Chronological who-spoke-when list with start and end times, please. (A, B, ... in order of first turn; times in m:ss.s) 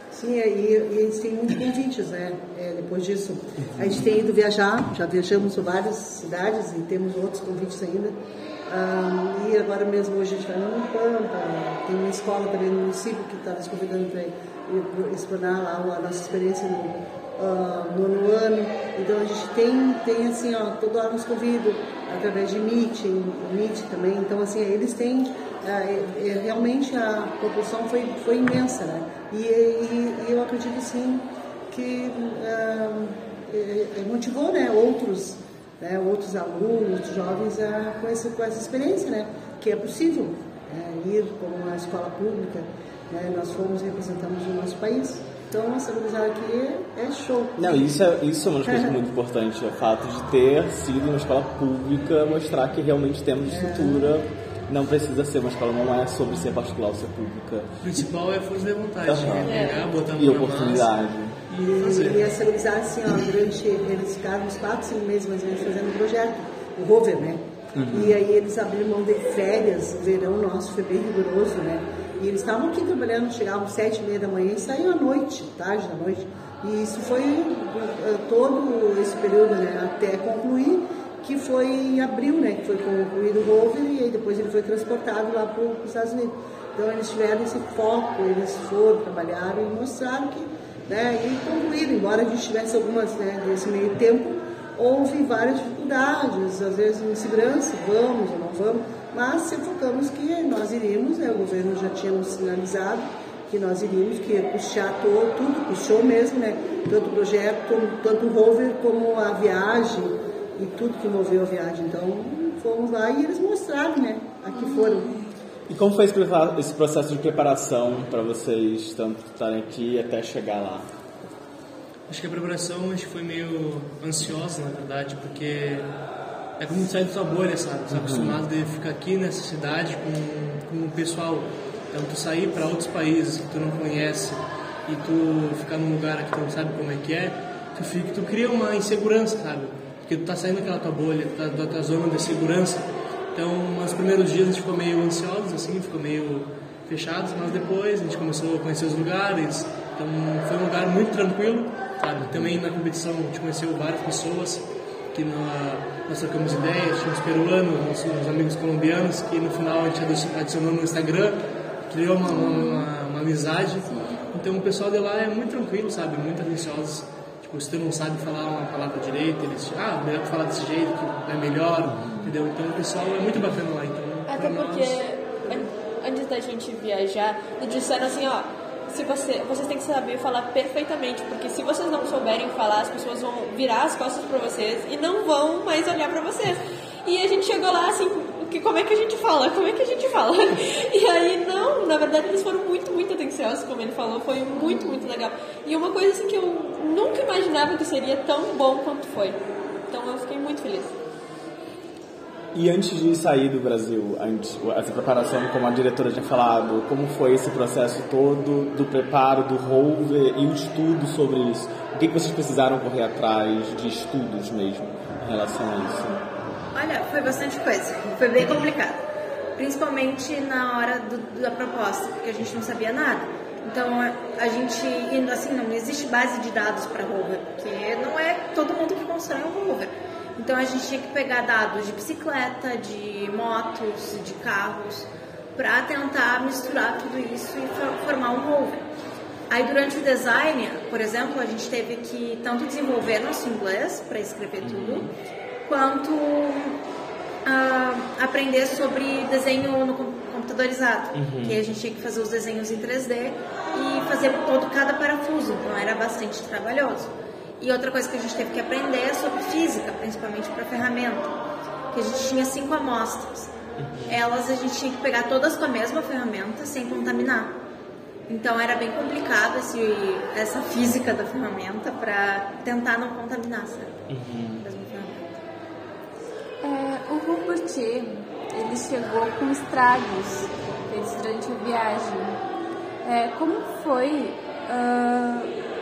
0:00.1-0:47.9 A
0:03.8-0:04.1 B
0:47.6-0:57.7 B
0:48.6-0:49.0 A
0:53.5-0:54.1 A
0:57.8-1:00.9 C
0:59.0-1:01.4 B
0:59.4-0:59.8 D
1:01.5-1:02.3 C
1:01.6-1:55.1 A
1:07.8-1:08.2 B
1:54.5-1:55.2 E
1:55.7-2:00.9 B
2:02.1-2:05.9 C
2:06.6-2:55.0 C
2:07.9-2:08.4 B
2:32.2-2:32.6 B
2:51.8-2:52.3 B
2:54.3-3:21.0 D
3:22.5-3:36.2 B
3:36.7-3:39.0 F
3:39.6-3:58.9 F
3:59.5-4:05.0 F
4:04.6-4:05.1 B
4:05.7-4:06.8 F
4:07.4-4:21.3 F
4:11.1-4:11.6 B
4:21.9-4:23.5 F
4:23.8-4:24.2 B
4:24.1-4:27.6 F
4:28.3-4:33.9 F
4:34.1-4:34.6 B
4:34.6-4:35.3 F
4:36.6-4:42.4 E
4:43.0-4:45.5 E